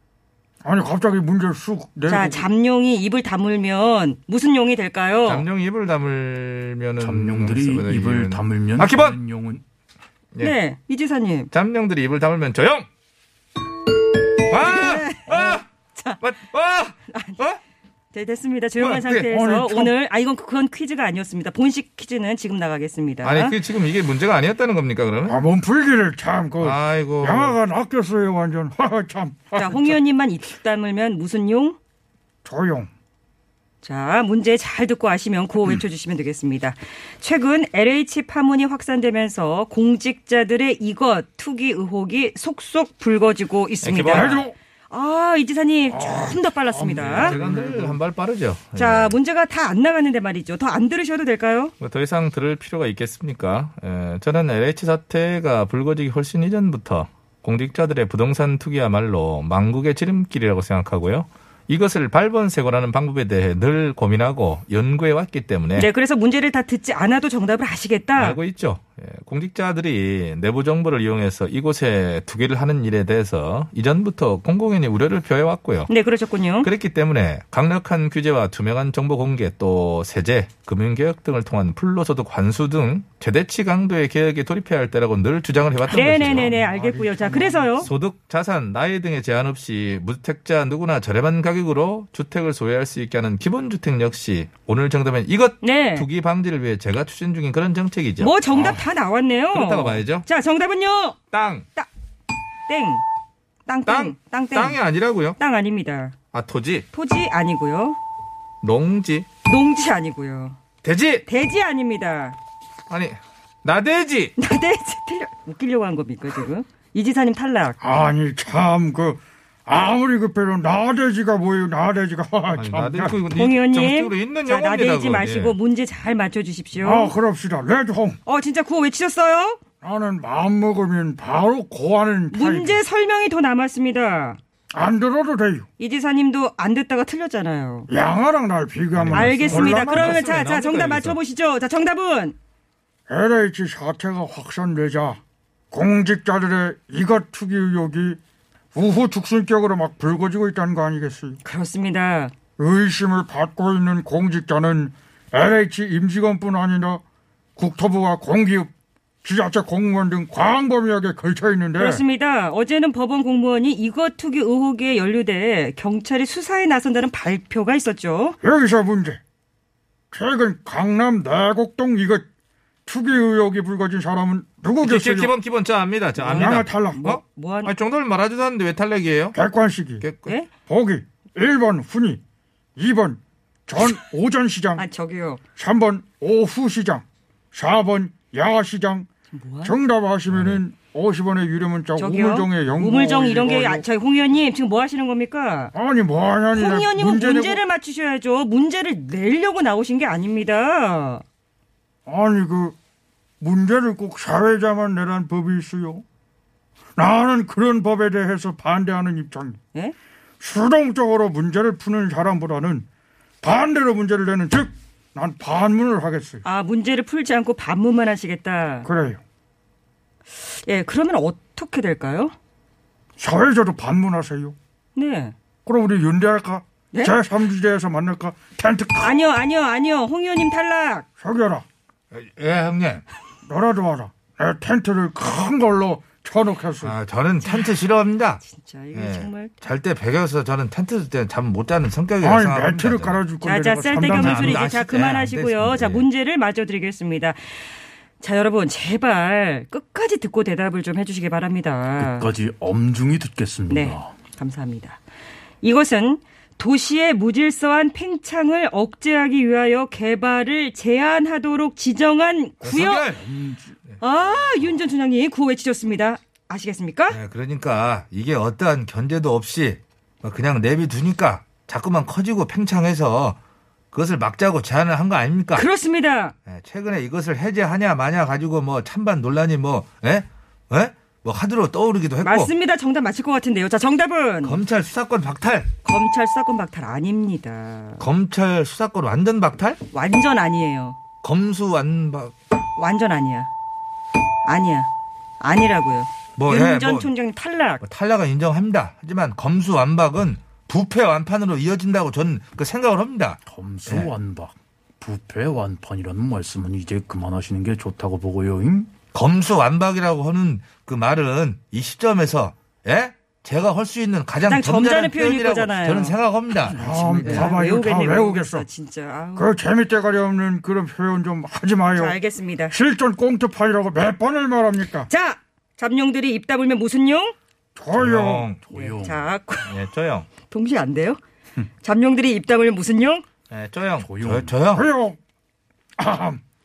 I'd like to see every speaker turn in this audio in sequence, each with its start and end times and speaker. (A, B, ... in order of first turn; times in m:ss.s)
0:00.6-0:02.5 A
0:02.1-0:05.4 B
0:05.2-0:09.2 C
0:07.0-0:09.6 D
0:10.4-0:11.5 B
0:11.5-0:12.9 C
0:14.5-0:15.6 C
0:14.6-0:16.2 B
0:16.2-0:17.6 C
0:17.1-0:17.4 B
0:18.1-0:23.6 B
0:18.8-0:19.3 C
0:19.3-0:19.9 A
0:23.2-0:25.4 C
0:25.3-0:30.0 A
0:26.6-0:27.6 C
0:29.5-0:31.8 B
0:32.4-0:32.9 A
0:33.8-0:47.4 B
0:43.8-0:44.4 C
0:44.1-0:44.5 A
0:45.9-0:48.0 A
0:47.1-0:49.2 C
0:48.8-0:51.7 B
0:51.8-1:05.9 C
1:05.8-1:08.4 B
1:08.1-1:15.9 C
1:15.9-1:16.7 B
1:16.6-1:26.5 C
1:25.9-1:27.9 B
1:25.9-1:27.8 A
1:27.8-1:38.8 C
1:35.6-1:36.1 B
1:38.2-1:41.2 B
1:39.5-1:40.3 C
1:41.3-1:41.6 C
1:42.7-1:43.0 B
1:43.6-1:44.8 B
1:43.8-1:45.4 C
1:45.4-1:46.1 B
1:46.3-1:46.8 C
1:46.9-1:48.0 B
1:48.6-1:49.3 C
1:49.4-1:50.6 B
1:50.8-1:51.2 C
1:51.2-1:52.4 B
1:52.9-1:54.3 C
1:54.4-1:57.8 B
1:57.8-2:03.2 A
2:02.5-2:05.6 C
2:03.3-2:07.1 B
2:06.8-2:08.2 A
2:08.2-2:09.6 B
2:09.8-2:12.8 A
2:12.3-2:14.4 B
2:14.7-2:15.7 A
2:15.8-2:17.9 B
2:17.9-2:20.2 A
2:18.9-2:21.2 C
2:19.1-2:22.4 B
2:23.1-2:25.2 A
2:25.7-2:28.2 A
2:28.7-2:31.4 A
2:31.4-2:32.3 B
2:32.6-2:37.0 A
2:37.6-2:38.7 A
2:39.2-2:42.0 A
2:41.8-2:48.4 B
2:48.4-2:49.2 A
2:50.1-2:52.2 A
2:52.8-2:55.3 A
2:54.8-2:59.4 C
2:56.2-2:57.7 B
2:56.3-2:57.1 A
2:59.3-3:00.0 A
3:00.0-3:00.4 C
3:00.6-3:02.2 A
3:02.8-3:04.8 A
3:04.8-3:05.4 B
3:05.6-3:09.1 A
3:09.3-3:09.7 B
3:09.6-3:13.8 A
3:10.3-3:10.6 C
3:12.0-3:15.7 B
3:15.7-3:17.6 A
3:16.5-3:21.2 B
3:22.0-3:22.8 A
3:23.4-3:26.0 A
3:27.0-3:29.6 A
3:30.4-3:32.9 A
3:33.4-3:36.4 A
3:36.4-3:38.9 B
3:38.8-3:39.2 A
3:40.4-3:42.3 B
3:43.2-3:44.6 A
3:44.9-3:45.3 B
3:45.6-3:49.2 A
3:49.0-3:51.0 B
3:51.2-3:51.6 A
3:52.1-3:53.0 C
3:53.4-3:57.0 A
3:56.8-3:58.4 C
3:57.4-3:57.8 B
3:58.4-3:59.5 B
3:58.9-4:03.2 C
4:02.2-4:04.6 A
4:03.4-4:07.6 B
4:04.1-4:06.1 C
4:08.2-4:12.3 B
4:12.0-4:14.1 D
4:13.7-4:15.0 B
4:15.6-4:23.1 B
4:22.6-4:23.2 C
4:23.1-4:23.8 D
4:24.0-4:27.2 B
4:27.1-4:33.4 C
4:33.9-4:35.6 C
4:35.5-4:36.3 B
4:36.4-4:42.5 C
4:42.2-4:44.6 B
4:44.4-4:45.7 C
4:45.8-4:48.0 B
4:48.0-4:49.8 C
4:49.9-4:51.0 B
4:51.2-4:52.3 C
4:52.8-4:53.5 B
4:54.4-4:54.9 B
4:55.4-4:57.8 B
4:56.4-4:57.1 C
4:57.8-5:04.1 C
5:03.4-5:08.9 D
5:09.1-5:16.8 C
5:14.4-5:19.5 B
5:16.8-5:18.6 A
5:19.4-5:22.2 A
5:21.9-5:22.7 B
5:22.7-5:25.1 A
5:25.0-5:27.3 B
5:27.8-5:28.5 A
5:27.9-5:28.6 C
5:28.6-5:29.3 D
5:28.7-5:29.8 B
5:29.7-5:30.3 C
5:30.4-5:31.2 B
5:31.8-5:33.2 B
5:33.5-5:34.9 C
5:34.0-5:34.6 D
5:34.7-5:35.2 A
5:36.0-5:36.4 A